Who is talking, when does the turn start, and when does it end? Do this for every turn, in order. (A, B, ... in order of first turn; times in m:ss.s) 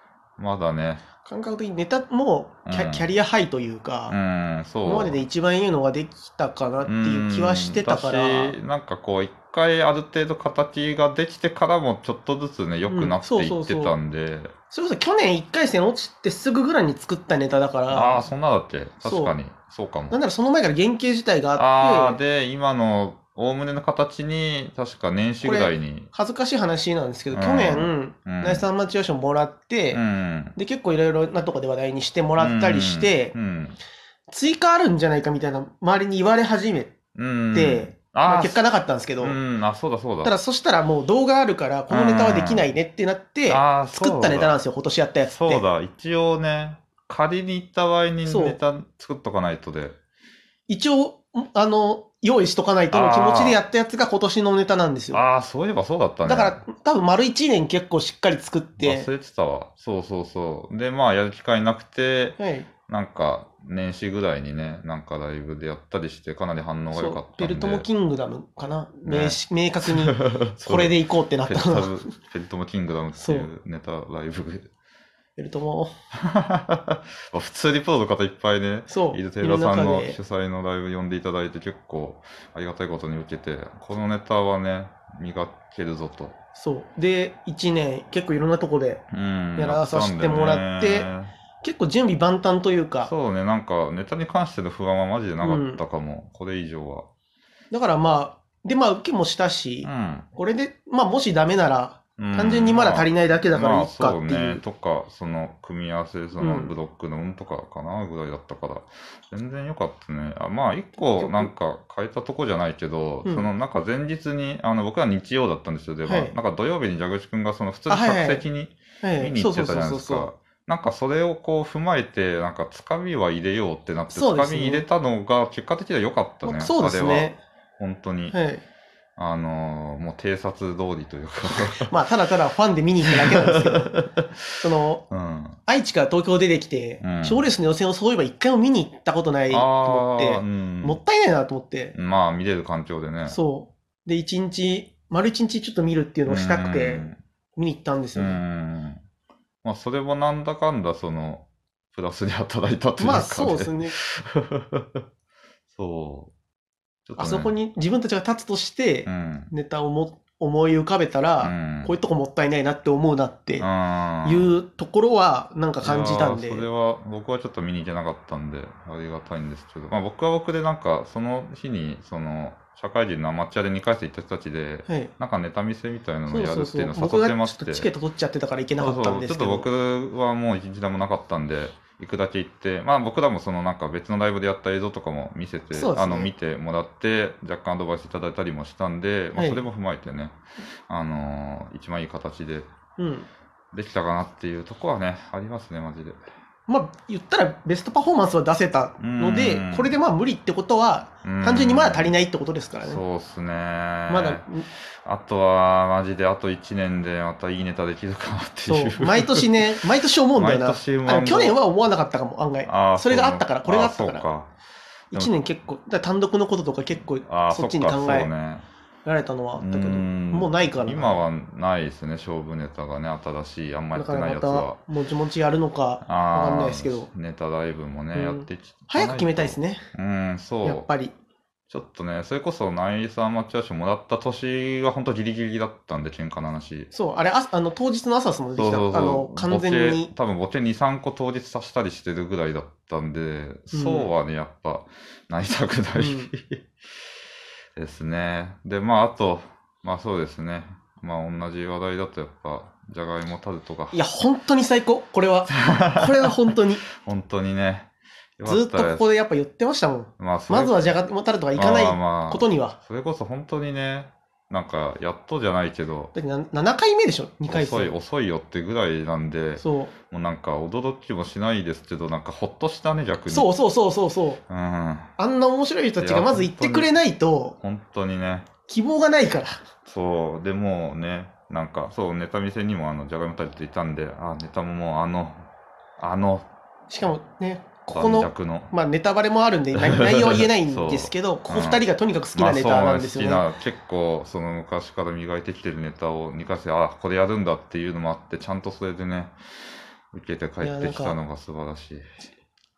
0:00.4-0:01.0 A
0:01.2-0:04.2 B
0:02.7-0:03.1 A
0:04.1-0:05.2 A
0:04.8-0:08.6 B
0:06.8-0:14.5 A
0:12.8-0:14.0 B
0:14.7-0:18.3 B
0:17.9-0:20.2 A
0:19.0-0:19.3 B
0:20.1-0:22.2 B
0:21.6-0:26.1 A
0:25.4-0:30.0 B
0:27.3-0:28.7 A
0:29.9-0:30.6 A
0:30.6-0:33.3 B
0:32.4-0:33.8 A
0:34.3-0:36.9 B
0:37.1-0:38.6 A
0:37.5-0:39.4 B
0:39.2-0:40.3 A
0:40.2-0:45.6 B
0:41.9-0:42.7 A
0:43.5-0:44.6 A
0:45.2-0:50.0 A
0:48.2-0:48.6 B
0:50.7-0:55.2 B
0:52.9-0:53.6 A
0:55.1-0:56.6 A
0:56.2-0:59.1 B
0:58.8-1:07.8 A
1:02.4-1:02.7 B
1:06.9-1:12.1 B
1:09.0-1:14.7 A
1:13.2-1:13.5 B
1:15.4-1:15.9 B
1:16.2-1:26.4 A
1:18.9-1:20.2 B
1:26.6-1:29.0 B
1:29.1-1:31.3 A
1:29.5-1:33.1 B
1:33.0-1:37.1 A
1:35.4-1:35.8 B
1:37.7-1:44.6 B
1:39.8-1:40.3 A
1:42.2-2:08.4 A
1:46.4-1:46.7 B
1:51.2-1:51.5 B
1:53.2-1:53.5 B
1:56.0-1:56.3 B
1:57.9-1:58.4 B
1:59.0-2:00.3 B
2:04.1-2:04.8 B
2:06.4-2:07.4 B
2:08.3-2:08.6 B
2:09.2-2:11.9 A
2:11.8-2:13.9 B
2:13.2-2:14.2 A
2:14.6-2:15.0 B
2:15.1-2:15.6 A
2:15.6-2:22.0 B
2:17.0-2:17.4 A
2:19.5-2:21.0 A
2:21.9-2:23.4 A
2:23.3-2:28.4 B
2:26.2-2:27.2 A
2:28.1-2:29.0 A
2:29.6-2:35.0 A
2:33.0-2:33.9 B
2:35.7-2:36.3 A
2:37.1-2:37.5 A
2:37.2-2:43.7 B
2:39.0-2:39.5 A
2:41.4-2:42.0 A
2:43.6-2:44.5 A
2:44.2-2:46.7 B
2:45.8-2:57.9 A
2:56.3-2:59.7 B
2:58.8-3:10.4 A
3:05.7-3:06.3 B
3:09.4-3:09.6 B
3:10.9-3:12.7 A
3:13.0-3:13.3 B
3:13.7-3:16.2 A
3:16.7-3:23.0 B
3:19.0-3:19.9 A
3:21.2-3:22.2 A
3:22.8-3:24.4 A
3:24.1-3:24.6 B
3:25.0-3:29.7 A
3:28.6-3:34.2 B
3:30.3-3:31.6 A
3:32.6-3:34.5 A
3:35.1-3:38.3 B
3:37.2-3:38.6 A
3:39.0-3:41.2 B
3:39.6-3:44.8 A
3:43.9-3:47.1 B
3:46.0-3:50.8 A
3:48.1-3:49.8 B
3:50.6-3:51.1 B
3:51.7-3:56.9 A
3:56.9-4:00.1 B
3:58.5-4:06.6 A
4:03.7-4:04.1 B
4:06.0-4:06.3 B
4:07.8-4:14.0 A
4:13.9-4:16.8 B
4:15.6-4:16.3 A
4:17.0-4:19.1 A
4:18.4-4:22.8 B
4:20.2-4:21.0 A
4:21.5-4:26.1 A
4:26.1-4:27.9 B
4:27.5-4:33.5 A
4:29.6-4:29.9 B
4:33.3-4:34.4 B
4:34.5-4:35.1 A
4:35.2-4:37.6 B
4:36.0-4:36.9 A
4:37.6-4:38.5 A
4:38.7-4:39.6 B
4:39.8-4:45.4 A
4:46.0-4:46.4 A
4:46.9-4:53.4 B
4:47.9-4:48.7 A
4:49.8-4:51.8 A
4:52.3-4:59.3 A
5:00.1-5:02.1 A
5:00.6-5:01.2 B